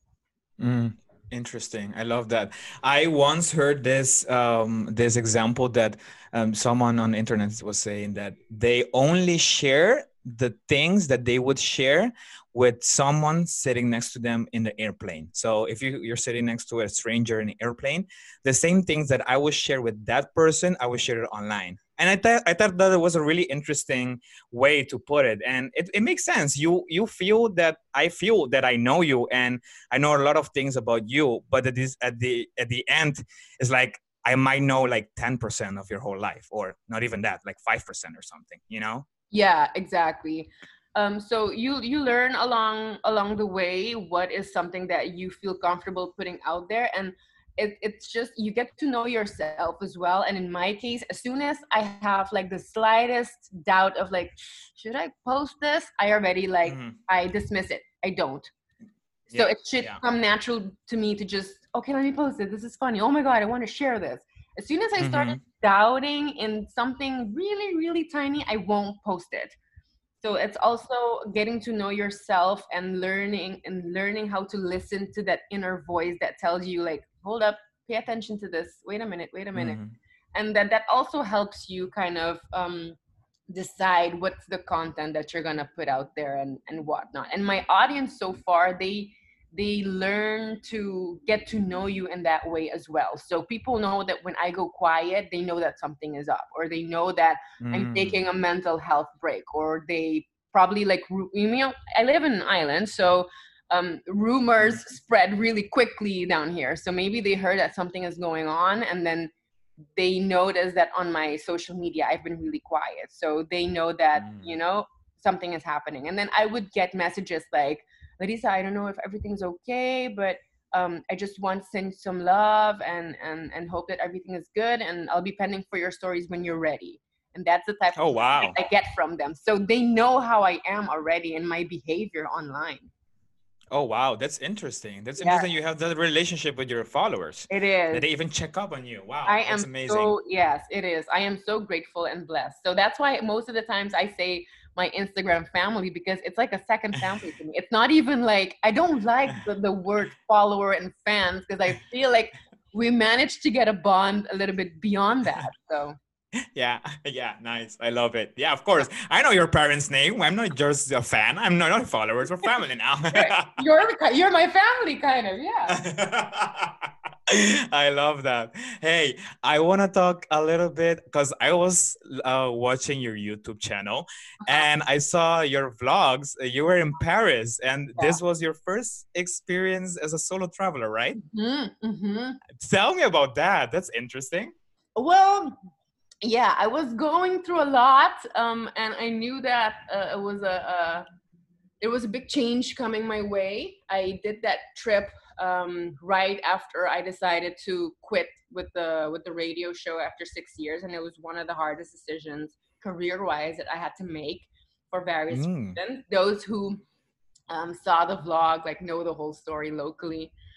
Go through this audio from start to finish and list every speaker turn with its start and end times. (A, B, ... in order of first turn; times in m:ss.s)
0:00.6-0:39.0 A
0:39.3-0:58.5 B
0:56.7-0:56.9 A
0:59.3-1:00.0 A
0:59.3-1:09.6 B
1:05.0-1:05.4 A
1:10.2-1:19.8 B
1:19.5-1:19.9 A
1:20.3-1:23.0 B
1:23.5-1:49.3 B
1:37.6-1:38.2 A
1:49.9-2:12.9 B
1:54.2-1:54.6 A
2:08.0-2:08.5 A
2:13.7-2:20.1 A
2:15.2-2:15.4 B
2:17.5-2:18.0 B
2:19.2-2:36.0 B
2:36.5-2:43.5 A
2:43.1-2:45.8 B
2:45.7-3:01.2 A
3:01.1-3:02.4 B
3:02.5-3:04.5 A
3:05.0-3:05.6 B
3:06.2-3:11.0 B
3:11.8-3:26.8 B
3:25.3-3:25.8 A
3:27.5-3:30.3 B